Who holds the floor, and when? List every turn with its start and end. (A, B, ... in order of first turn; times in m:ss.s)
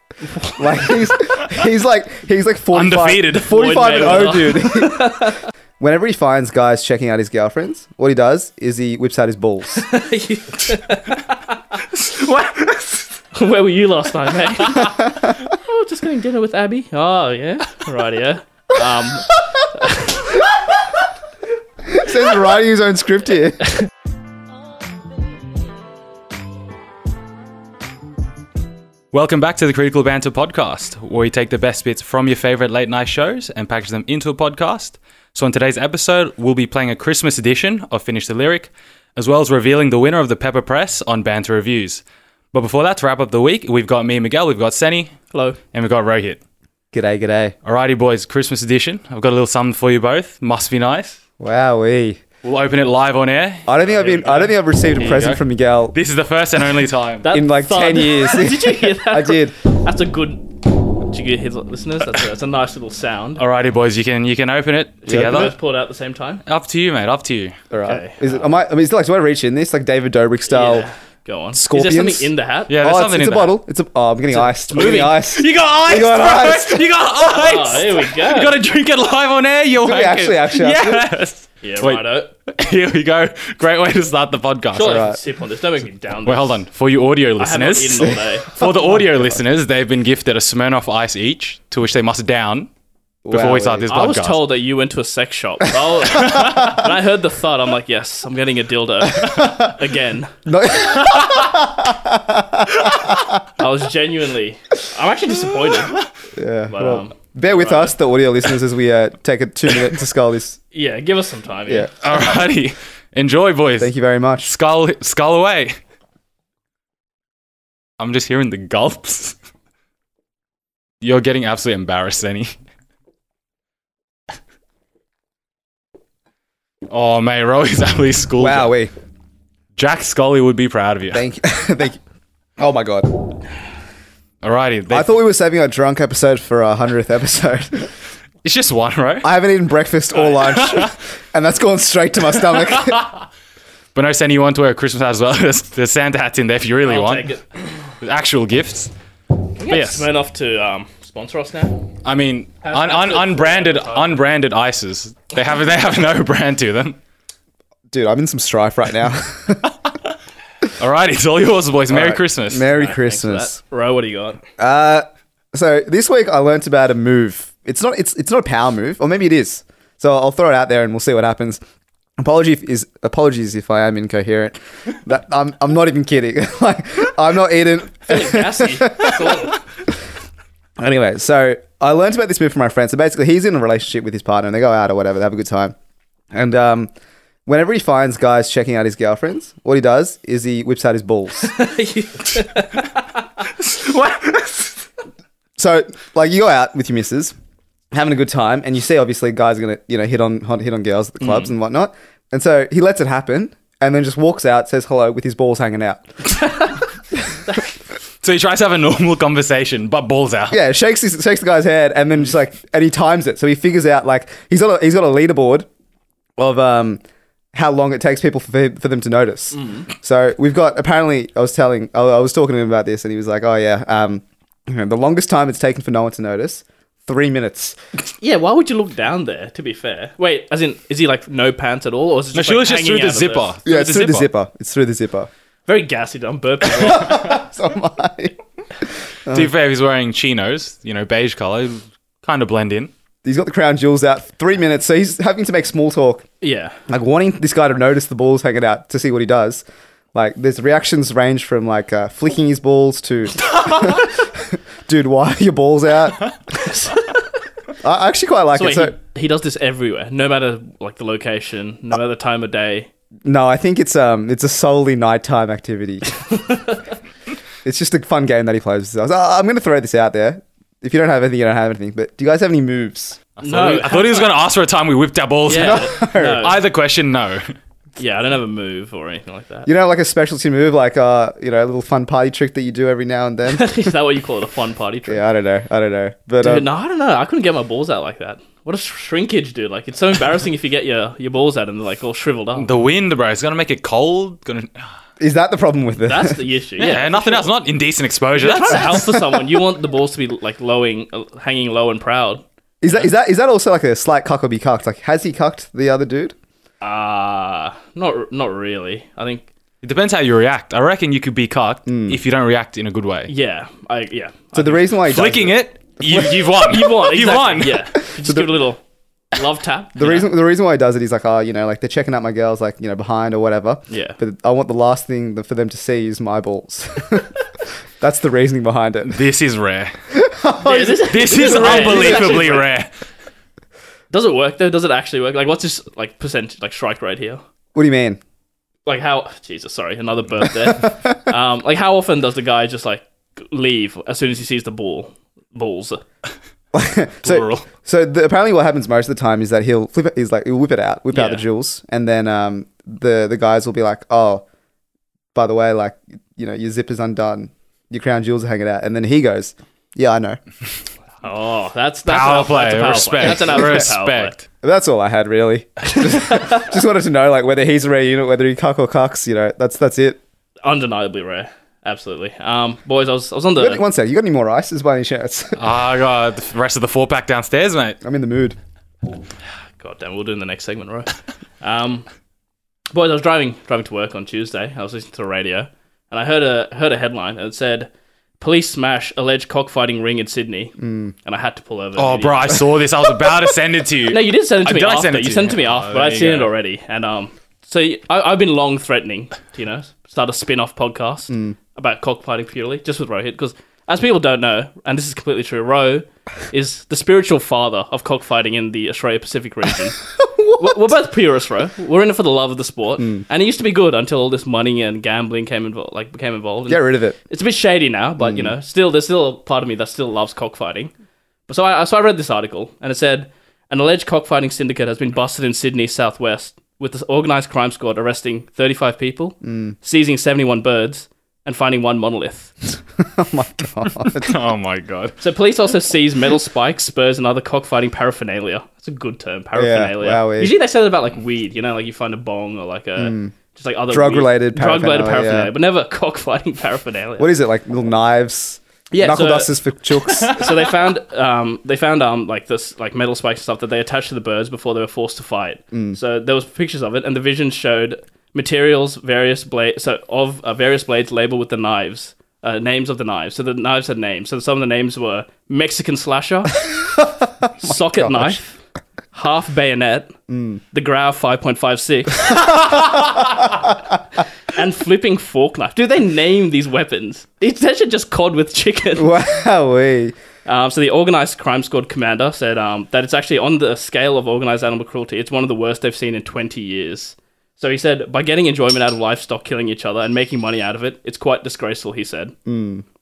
0:00.4-0:09.9 A
0:02.7-0:04.2 B
0:03.3-0:05.4 C
0:09.8-0:11.8 C
0:11.9-0:13.1 B
0:13.3-0:20.4 C
0:14.8-0:15.3 A
0:21.8-0:23.6 A
0:29.1-0:45.1 B
0:45.3-0:45.6 C
0:45.7-0:46.4 B
0:46.9-0:47.5 A
0:47.6-0:51.2 B
0:51.4-0:52.2 A
0:52.4-0:53.7 B
0:53.6-0:55.9 A
0:54.0-0:54.5 C
0:55.0-0:55.4 B
0:55.9-0:57.3 B
0:57.2-1:03.4 C
0:57.3-0:59.5 A
1:03.4-1:05.5 B
1:05.1-1:05.5 A
1:05.1-1:06.4 C
1:06.4-1:07.6 B
1:07.7-1:10.9 A
1:07.8-1:08.5 C
1:10.5-1:12.7 C
1:11.5-1:16.9 A
1:12.7-1:13.6 B
1:14.3-1:15.2 C
1:15.2-1:25.1 B
1:17.2-1:18.6 C
1:19.8-1:21.1 A
1:21.6-1:22.3 C
1:24.7-1:26.6 C
1:24.8-1:25.2 A
1:26.2-1:32.7 B
1:27.4-1:28.6 C
1:33.2-1:33.9 A
1:33.3-1:34.5 B
1:33.9-1:40.4 C
1:36.1-1:36.6 B
1:39.2-1:39.7 A
1:40.4-1:43.4 A
1:41.0-1:41.3 B
1:43.6-1:46.0 C
1:46.4-1:50.6 A
1:46.7-1:47.9 C
1:50.7-1:51.9 C
1:52.0-1:55.8 B
1:53.8-1:54.5 A
1:58.0-1:59.3 B
2:01.0-2:02.5 B
2:06.9-2:08.8 B
2:08.4-2:08.9 A
2:09.8-2:11.2 B
2:11.1-2:12.0 A
2:12.6-2:13.3 A
2:14.4-2:15.1 B
2:14.9-2:17.9 A
2:18.4-2:19.3 B
2:19.2-2:23.1 A
2:20.5-2:20.9 B
2:22.8-2:23.0 B
2:23.9-2:27.3 B
2:26.8-2:27.6 C
2:28.0-2:28.9 B
2:29.6-2:31.9 C
2:29.7-2:30.1 B
2:32.0-2:37.0 B
2:32.6-2:34.2 C
2:37.9-2:39.7 A
2:40.8-2:42.7 B
2:41.9-2:43.6 A
2:42.7-2:44.4 C
2:44.6-2:51.6 A
2:52.2-2:59.5 A
2:58.1-2:59.6 C
3:00.8-3:05.7 A
3:06.3-3:06.9 A
3:07.4-3:11.5 A
3:11.4-3:13.2 C
3:13.6-3:14.7 B
3:15.6-3:17.3 A
3:17.9-3:26.1 A
3:28.2-3:30.6 B
3:30.5-3:35.7 A
3:36.4-3:37.0 A
3:37.5-3:47.8 A
3:39.5-3:39.9 C
3:48.2-3:53.5 C
3:52.3-3:54.3 B
3:53.6-3:55.3 A
3:55.6-3:57.4 C
3:56.7-3:58.4 A
3:59.3-4:02.9 B
4:03.2-4:06.2 A
4:06.4-4:06.8 C
4:06.9-4:09.6 A
4:10.1-4:16.3 A
4:16.6-4:17.2 C
4:17.8-4:18.9 A
4:18.5-4:22.9 C
4:23.2-4:26.0 A
4:26.3-4:26.8 C
4:27.6-4:33.2 A
4:33.4-4:37.5 B
4:33.4-4:34.3 C
4:35.5-4:36.6 C
4:35.5-4:36.5 A
4:38.0-4:39.7 C
4:39.6-4:43.9 A
4:43.5-4:45.2 C
4:45.1-4:46.6 A
4:46.4-4:52.7 C
4:52.6-4:54.9 B
4:55.2-4:56.4 A
4:56.0-4:57.5 C
4:56.8-4:59.1 B
4:58.4-5:03.0 C
4:58.9-4:59.2 A
5:02.8-5:06.3 A
5:06.8-5:09.5 C
5:09.8-5:13.3 B
5:11.9-5:12.2 A
5:13.3-5:14.8 C
5:14.5-5:16.4 A
5:15.0-5:17.9 B
5:16.6-5:18.8 C
5:18.2-5:18.6 A
5:19.3-5:20.3 C
5:19.9-5:27.3 A
5:23.9-5:24.2 C
5:28.0-5:29.2 A
5:29.1-5:29.9 B
5:30.1-5:32.5 A
5:30.6-5:32.7 C
5:31.1-5:32.9 B
5:34.1-5:37.4 C
5:37.7-5:38.2 A
5:38.8-5:46.0 C
5:40.4-5:41.2 A
5:46.7-5:54.4 A
5:47.3-5:47.6 C
5:51.1-5:51.4 C
5:55.3-6:00.4 A
6:01.2-6:04.3 C
6:02.1-6:04.4 B
6:03.4-6:03.9 A
6:04.6-6:10.2 A
6:05.9-6:06.6 C
6:10.6-6:13.8 C
6:13.6-6:15.6 A
6:15.6-6:18.0 B
6:18.0-6:18.6 A
6:19.8-6:22.0 C
6:22.9-6:32.9 C
6:30.8-6:31.1 A
6:32.0-6:36.5 B
6:34.1-7:00.9 C
6:50.2-6:50.9 A
6:56.7-6:57.2 A
6:58.2-6:58.5 A
7:01.5-7:12.5 C
7:09.4-7:09.7 A
7:13.0-7:14.3 A
7:14.0-7:15.2 B
7:15.2-7:27.3 C
7:19.5-7:20.5 A
7:23.0-7:23.3 A
7:23.9-7:25.5 A
7:27.2-7:30.6 A
7:28.9-7:29.5 C
7:30.1-7:46.8 C
7:35.7-7:36.0 A
7:47.6-7:48.6 C
7:47.6-7:48.4 A
7:49.1-7:50.1 C
7:50.3-7:50.6 A
7:50.7-7:53.7 C
7:54.5-7:59.2 C
7:59.0-8:00.2 A
8:00.4-8:12.3 C
8:12.4-8:12.8 A